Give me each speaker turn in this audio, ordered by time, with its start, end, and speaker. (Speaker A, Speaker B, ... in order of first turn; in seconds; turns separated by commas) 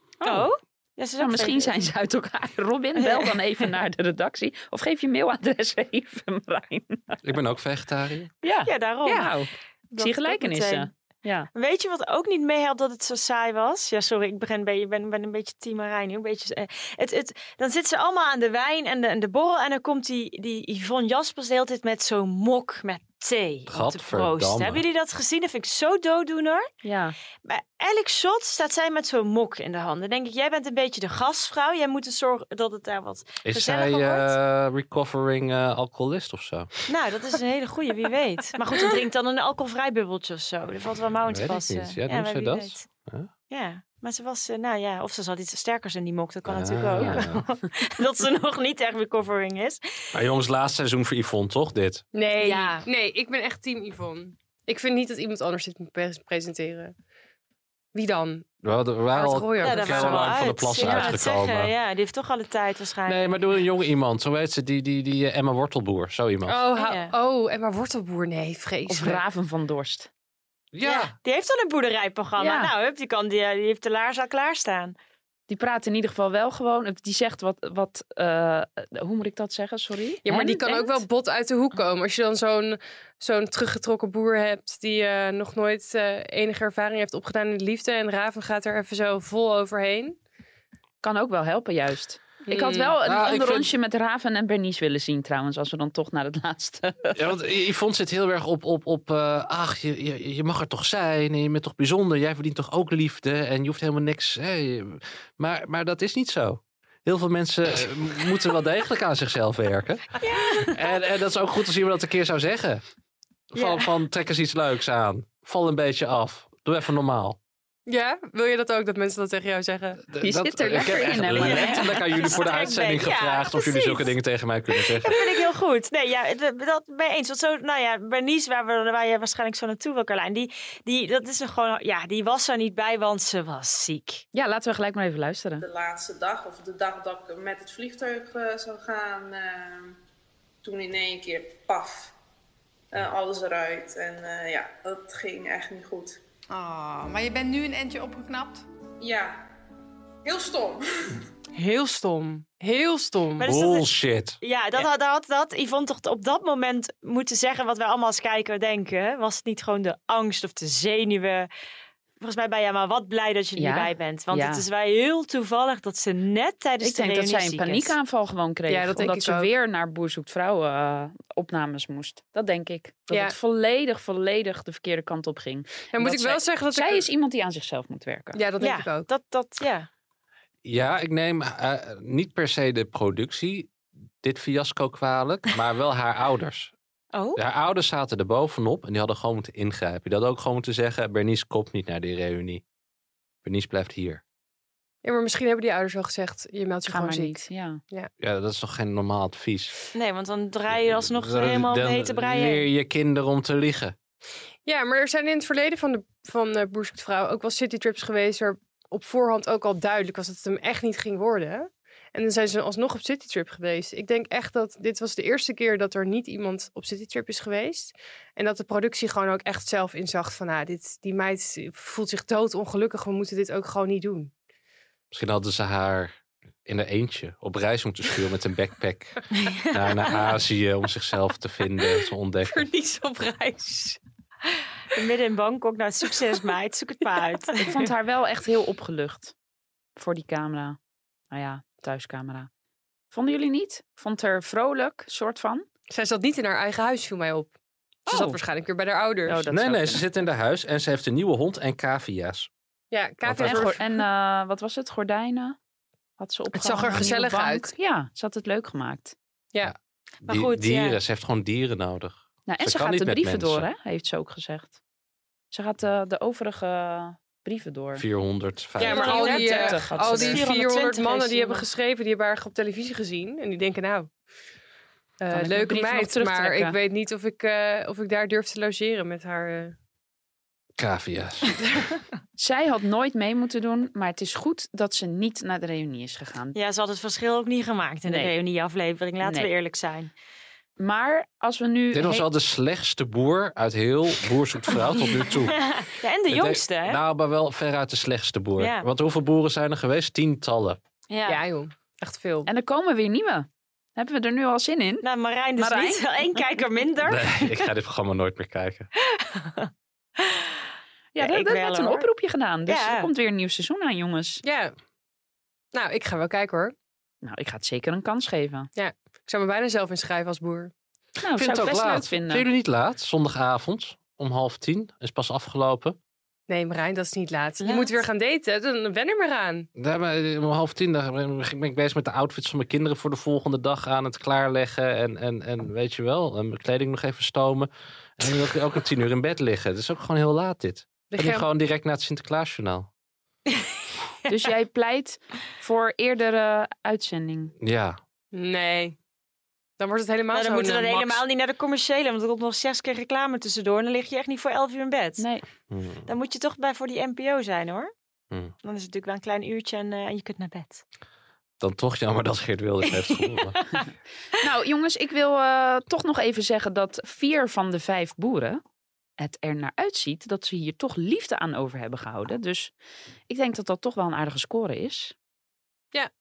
Speaker A: 0.2-0.5, Speaker B: 0.2-1.9, Speaker A: 1.2-7.2, Speaker B: 3.0-3.3, Speaker C: 7.2-8.3, Speaker A: 8.4-11.5, Speaker B: 8.6-9.3, Speaker B: 9.9-10.9, Speaker B: 11.5-26.7, Speaker C: 23.7-24.8, Speaker A: 26.8-27.1, Speaker B: 27.4-34.3, Speaker C: 33.4-36.8, Speaker B: 36.9-42.9, Speaker C: 41.3-43.3, Speaker B: 43.5-50.1, Speaker C: 46.5-47.4, Speaker A: 47.0-47.2, Speaker C: 50.1-52.0, Speaker D: 52.1-56.9, Speaker B: 52.4-52.8, Speaker D: 57.9-58.5, Speaker C: 58.6-61.7, Speaker D: 59.1-60.5, Speaker B: 59.6-63.4, Speaker C: 63.0-66.7, Speaker D: 66.5-69.2, Speaker B: 66.8-67.1, Speaker A: 68.9-70.1, Speaker C: 70.7-71.1, Speaker B: 70.8-74.9, Speaker A: 72.4-72.7, Speaker A: 75.5-81.0, Speaker D: 80.2-90.2, Speaker A: 91.0-97.2, Speaker D: 92.5-93.0, Speaker C: 93.0-93.7, Speaker C: 97.1-110.0, Speaker B: 110.2-110.8, Speaker C: 110.6-112.8, Speaker C: 113.5-117.4, Speaker B: 113.5-113.9, Speaker D: 117.9-120.0, Speaker C: 120.1-125.4, Speaker A: 120.2-121.9, Speaker B: 121.3-124.1, Speaker B: 124.7-134.2, Speaker A: 134.3-135.6, Speaker E: 135.6-139.9, Speaker E: 140.6-142.1, Speaker E: 142.9-146.2, Speaker F: 146.5-148.6, Speaker E: 149.0-149.4, Speaker E: 150.2-151.1, Speaker D: 151.5-153.4, Speaker B: 153.4-161.5, Speaker C: 153.4-154.4, Speaker B: 162.2-167.9, Speaker A: 163.6-164.7, Speaker A: 166.8-178.4, Speaker D: 168.7-169.5, Speaker D: 173.1-173.3, Speaker D: 175.9-177.1, Speaker D: 178.3-179.1, Speaker B: 178.6-179.9, Speaker C: 180.6-186.7, Speaker B: 187.1-187.4, Speaker C: 187.3-192.6, Speaker C: 193.4-194.2, Speaker D: 195.0-198.1, Speaker A: 196.9-197.8, Speaker C: 198.2-199.7, Speaker B: 199.9-202.6, Speaker C: 200.7-203.9, Speaker D: 204.7-224.3, Speaker C: 225.1-232.7, Speaker B: 229.4-229.7, Speaker D: 232.5-234.0, Speaker B: 234.9-237.8, Speaker A: 237.7-239.3, Speaker A: 239.9-240.8, Speaker A: 241.3-242.5, Speaker A: 243.1-245.7, Speaker D: 245.9-247.5, Speaker D: 248.1-249.5, Speaker A: 248.1-248.4, Speaker A: 249.2-250.1, Speaker C: 249.5-252.5, Speaker D: 252.9-254.0, Speaker C: 253.2-253.7, Speaker A: 253.4-255.6, Speaker A: 256.2-259.1, Speaker D: 256.5-257.7, Speaker C: 259.6-263.7, Speaker B: 260.3-261.0, Speaker A: 262.5-264.8, Speaker A: 265.5-268.0, Speaker C: 267.9-269.2, Speaker D: 268.8-274.1, Speaker A: 268.8-270.4, Speaker B: 268.8-271.7, Speaker D: 275.2-279.7, Speaker A: 275.3-276.8, Speaker C: 280.8-281.6, Speaker A: 282.4-286.5, Speaker B: 286.5-290.1, Speaker A: 288.1-288.3, Speaker A: 289.2-289.5, Speaker A: 290.8-292.3, Speaker C: 291.9-295.7, Speaker B: 295.4-297.0, Speaker C: 296.3-300.8, Speaker B: 298.6-298.9, Speaker B: 301.1-301.4, Speaker D: 301.3-302.5, Speaker A: 302.4-305.0, Speaker B: 305.0-307.7, Speaker A: 305.6-306.0, Speaker C: 307.0-308.9, Speaker B: 309.0-310.6, Speaker A: 311.1-314.4, Speaker B: 311.2-312.1, Speaker B: 312.7-313.1, Speaker D: 314.4-314.7, Speaker D: 315.7-316.7, Speaker A: 317.2-318.7, Speaker D: 318.8-320.7, Speaker A: 321.2-322.4, Speaker C: 321.4-326.0, Speaker D: 326.5-329.7, Speaker B: 327.6-328.0, Speaker C: 329.8-342.9, Speaker D: 341.1-341.4, Speaker A: 344.3-347.5, Speaker C: 347.6-348.0, Speaker D: 348.3-348.9, Speaker D: 349.8-351.2, Speaker B: 350.3-355.2, Speaker A: 355.2-355.4, Speaker C: 355.7-356.1, Speaker B: 356.1-357.9, Speaker B: 358.6-360.8, Speaker C: 361.6-363.6, Speaker B: 363.1-363.8, Speaker A: 364.4-368.6, Speaker A: 369.2-372.7, Speaker A: 373.3-375.1